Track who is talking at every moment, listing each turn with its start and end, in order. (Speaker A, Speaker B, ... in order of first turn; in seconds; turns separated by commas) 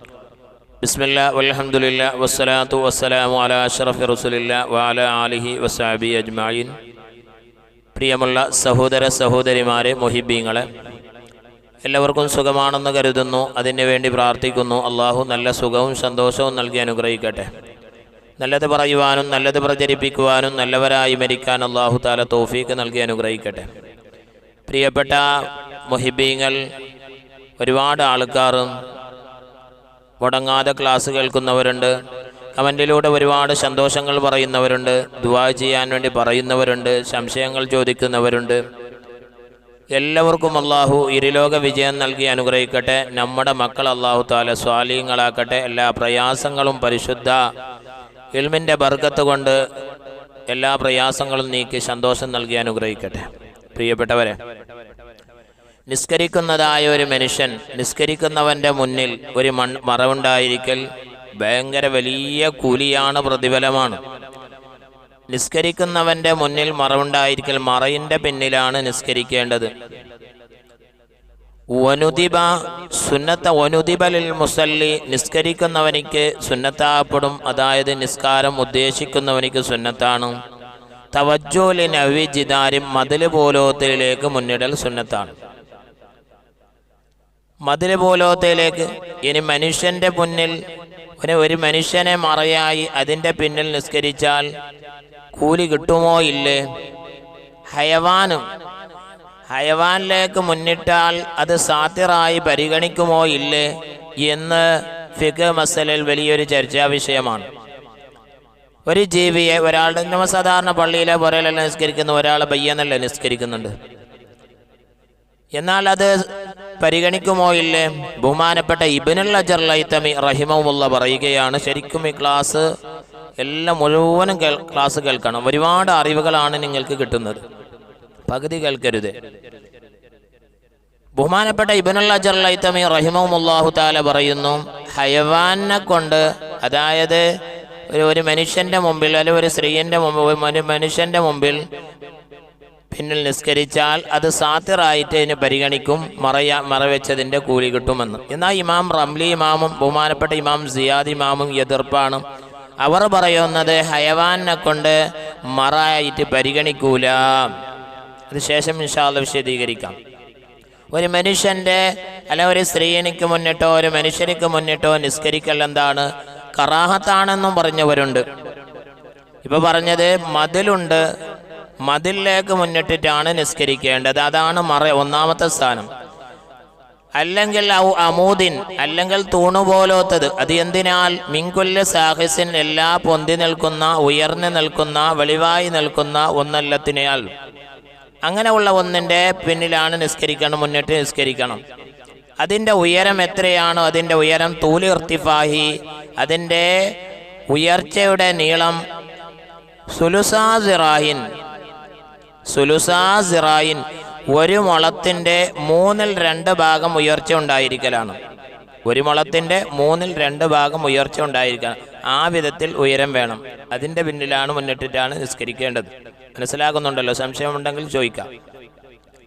Speaker A: 0.8-6.7, Speaker A: 8.0-10.7, Speaker A: 11.8-17.5, Speaker A: 18.4-23.7, Speaker A: 24.7-25.4, Speaker A: 25.9-26.6, Speaker A: 27.6-28.7, Speaker A: 30.2-31.9, Speaker A: 32.6-38.6, Speaker A: 40.0-47.4, Speaker A: 48.4-49.6, Speaker A: 50.5-54.4, Speaker A: 55.9-60.8, Speaker A: 61.4-64.0, Speaker A: 65.3-69.7, Speaker A: 71.7-80.3, Speaker A: 81.1-85.3, Speaker A: 87.7-90.5, Speaker A: 91.2-94.5, Speaker A: 95.3-96.6, Speaker A: 97.7-98.4, Speaker A: 99.5-103.7, Speaker A: 104.2-107.5, Speaker A: 108.9-113.8, Speaker A: 115.6-116.2, Speaker A: 116.8-122.7, Speaker A: 123.4-127.4, Speaker A: 128.3-129.1, Speaker A: 131.2-137.3, Speaker A: 137.9-141.6, Speaker A: 142.9-152.2, Speaker A: 152.8-155.0, Speaker A: 155.5-157.5, Speaker A: 158.3-160.0, Speaker A: 160.9-168.2, Speaker A: 169.4-171.0, Speaker A: 171.8-175.9, Speaker A: 177.2-187.3, Speaker A: 188.2-191.6, Speaker A: 192.4-196.8, Speaker A: 197.5-198.8, Speaker A: 199.9-201.2, Speaker A: 202.5-208.2, Speaker A: 208.9-218.3